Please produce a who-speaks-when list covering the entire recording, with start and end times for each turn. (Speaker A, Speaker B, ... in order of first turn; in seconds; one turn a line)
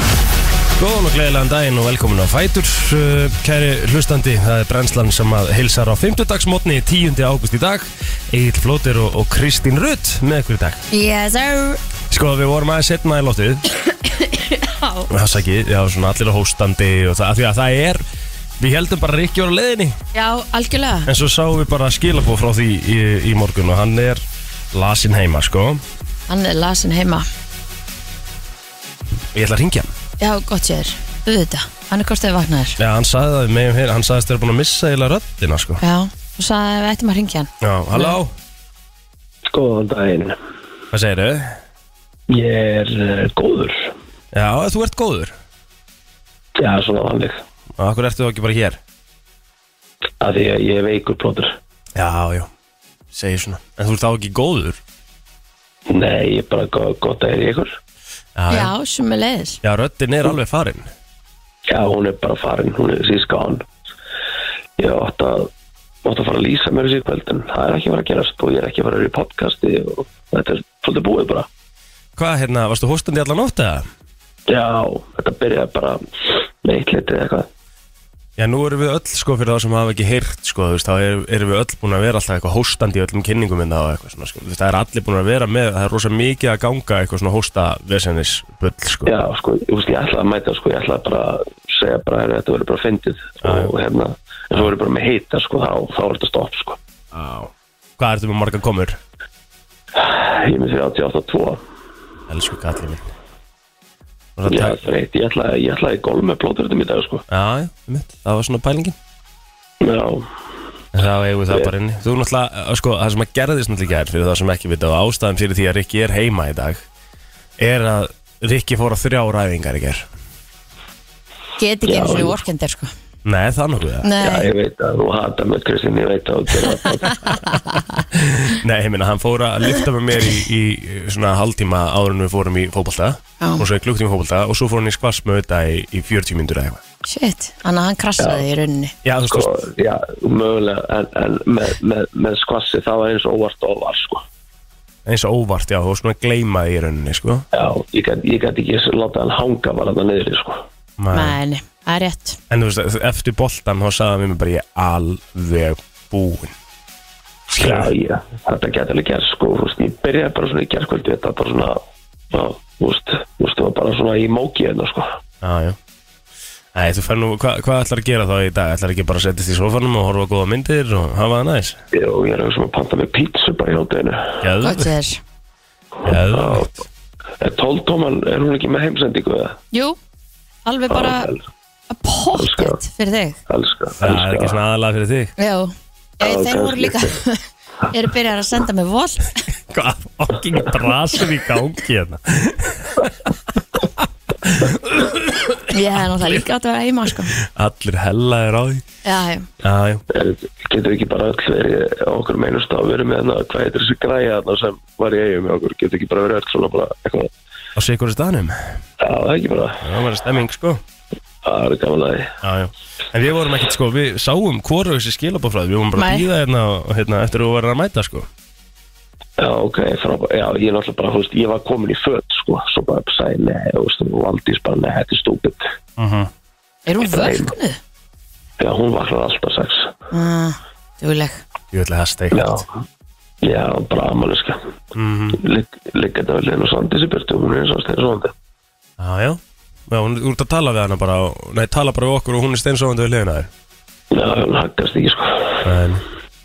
Speaker A: 0.8-10.8
Speaker B: 10.9-11.8
Speaker A: 12.1-13.6
Speaker B: 14.0-15.1
Speaker A: 15.1-18.1
Speaker A: 18.6-20.0
Speaker B: 20.1-21.1
Speaker A: 21.1-25.8
Speaker B: 26.3-27.3
Speaker A: 29.3-29.9
Speaker B: 30.2-32.8
Speaker A: 32.8-35.8
Speaker B: 35.8-38.2
Speaker A: 37.6-38.3
Speaker C: 39.5-40.4
Speaker A: 40.9-41.6
Speaker C: 42.3-43.9
Speaker A: 44.3-45.4
Speaker C: 46.6-47.4
Speaker A: 47.8-48.8
Speaker C: 50.2-51.6
Speaker A: 52.0-52.5
Speaker A: 53.1-54.8
Speaker C: 55.9-57.8
Speaker A: 58.4-58.7
Speaker B: 58.5-59.6
Speaker A: 59.6-60.9
Speaker C: 61.7-63.7
Speaker C: 64.8-65.5
Speaker C: 66.0-71.5
Speaker A: 72.2-73.9
Speaker C: 74.5-76.0
Speaker C: 76.6-77.5
Speaker A: 78.4-89.1
Speaker C: 89.1-96.8
Speaker A: 93.4-93.7
Speaker A: 97.1-99.0
Speaker C: 100.0-101.6
Speaker A: 102.3-103.1
Speaker A: 104.4-104.8
Speaker C: 104.5-107.2
Speaker A: 107.3-109.0
Speaker C: 109.8-110.3
Speaker A: 110.9-116.9
Speaker A: 117.6-120.1
Speaker B: 121.6-122.9
Speaker C: 121.8-122.4
Speaker A: 123.2-124.1
Speaker B: 124.0-124.5
Speaker C: 124.2-127.5
Speaker B: 127.5-127.8
Speaker A: 128.1-136.8
Speaker B: 133.4-133.7
Speaker B: 137.1-139.0
Speaker C: 138.2-138.4
Speaker A: 139.0-139.5
Speaker C: 139.3-144.2
Speaker A: 145.1-147.5
Speaker C: 147.5-150.7
Speaker A: 151.0-151.4
Speaker B: 151.1-152.4
Speaker A: 152.5-156.6
Speaker A: 157.5-157.9
Speaker C: 157.5-161.8
Speaker C: 162.3-165.1
Speaker A: 165.4-165.8
Speaker A: 166.7-171.8
Speaker C: 171.9-174.4
Speaker A: 174.4-174.9
Speaker B: 174.6-175.2
Speaker C: 176.1-176.7
Speaker A: 176.1-176.8
Speaker C: 177.4-179.6
Speaker B: 179.7-180.0
Speaker B: 180.7-181.3
Speaker C: 180.9-181.4
Speaker B: 181.9-183.4
Speaker C: 182.3-182.8
Speaker C: 183.5-184.6
Speaker A: 184.0-185.3
Speaker B: 185.4-189.4
Speaker C: 186.2-187.1
Speaker A: 189.7-196.4
Speaker B: 195.7-197.3
Speaker A: 197.3-198.8
Speaker B: 199.0-199.5
Speaker A: 199.6-200.0
Speaker C: 200.1-207.3
Speaker A: 207.8-208.8
Speaker C: 209.0-209.8
Speaker A: 209.8-210.8
Speaker C: 211.4-212.3
Speaker A: 212.4-218.3
Speaker B: 216.0-216.3
Speaker C: 219.4-225.6
Speaker A: 226.0-226.3
Speaker B: 226.9-227.8
Speaker C: 227.0-227.5
Speaker C: 228.6-229.9
Speaker B: 230.1-231.4
Speaker A: 231.7-232.6
Speaker C: 232.3-232.7
Speaker C: 233.4-234.6
Speaker A: 234.9-235.4
Speaker C: 235.3-238.3
Speaker A: 239.0-243.5
Speaker C: 244.1-245.6
Speaker A: 245.6-246.0